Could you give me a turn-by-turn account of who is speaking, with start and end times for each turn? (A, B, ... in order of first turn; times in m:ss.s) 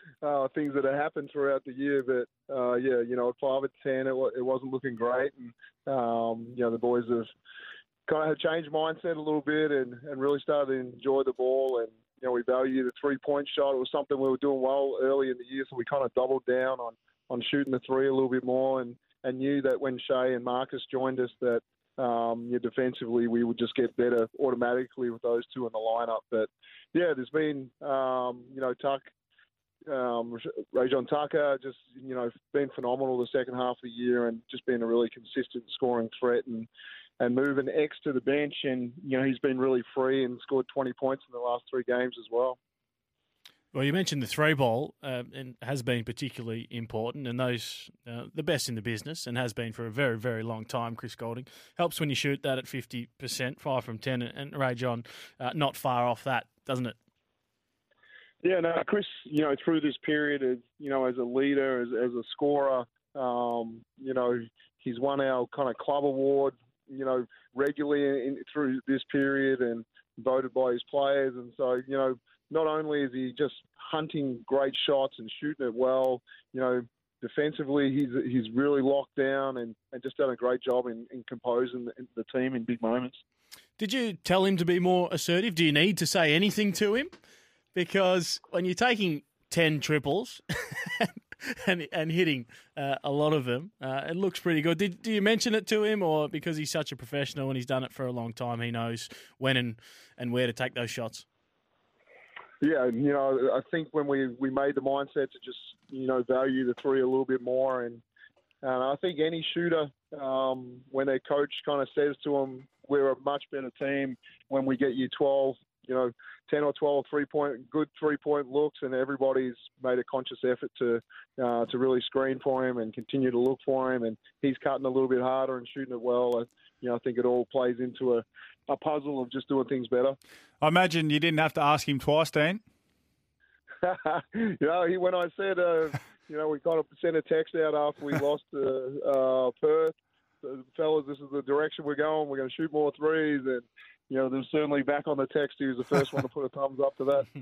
0:00.2-0:07.3 A
0:08.1-0:29.0 A
0:29.9-0:36.7 A
0:37.2-0:42.6 A
0:43.7-0:57.0 B
0:58.4-1:23.2 A
1:23.8-1:27.1 B
1:27.7-1:41.2 B
1:42.6-1:48.0 A
1:48.6-2:10.2 A
2:10.6-2:12.6 C
2:13.8-2:27.2 A